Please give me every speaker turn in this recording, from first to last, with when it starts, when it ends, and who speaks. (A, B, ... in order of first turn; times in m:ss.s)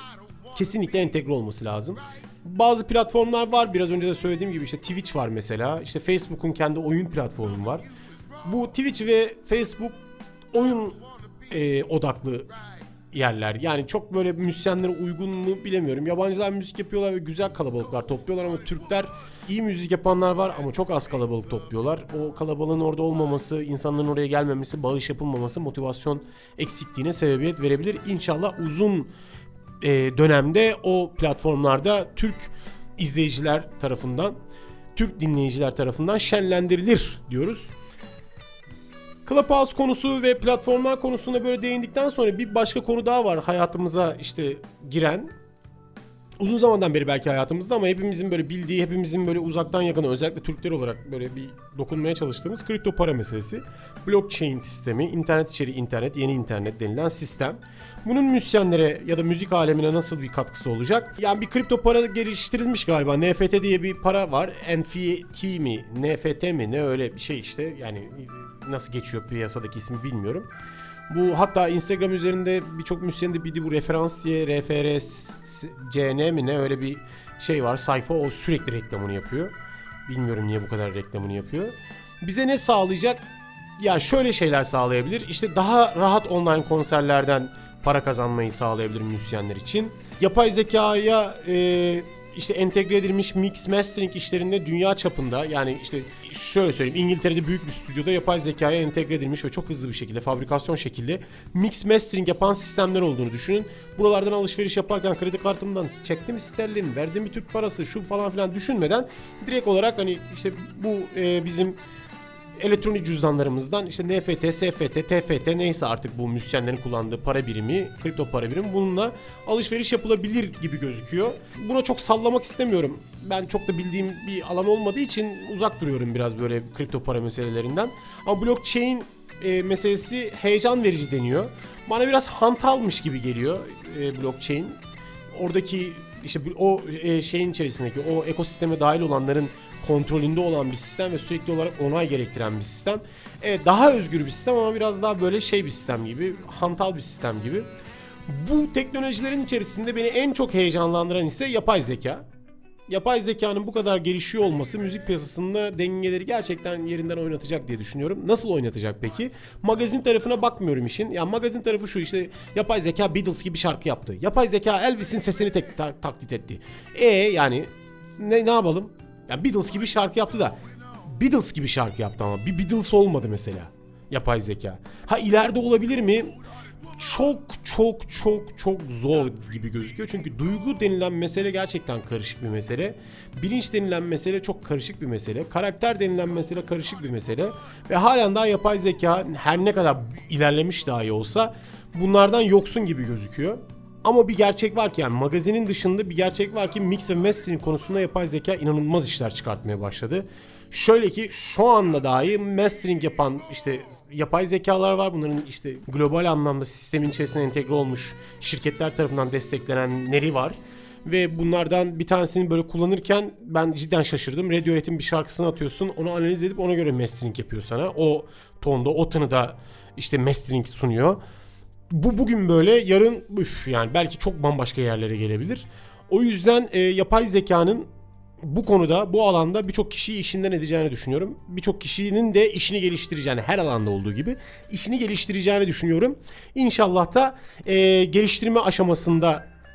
0:00.5-0:07.8 A
0:08.4-0:10.0 A
0:10.5-0:12.5 A
0:13.1-0:29.1 A
0:29.8-0:34.4 A
0:35.0-0:37.7 A
0:39.3-0:45.3 A
0:46.4-1:10.5 A
1:11.1-1:19.5 A
1:20.1-1:23.2 A
1:23.8-1:51.8 A
1:52.6-2:14.8 A
2:15.3-2:27.7 A
2:28.3-2:32.2 A
2:32.9-2:56.4 A
2:57.0-3:41.2 A
3:41.9-3:47.9 A
3:48.4-3:59.5 A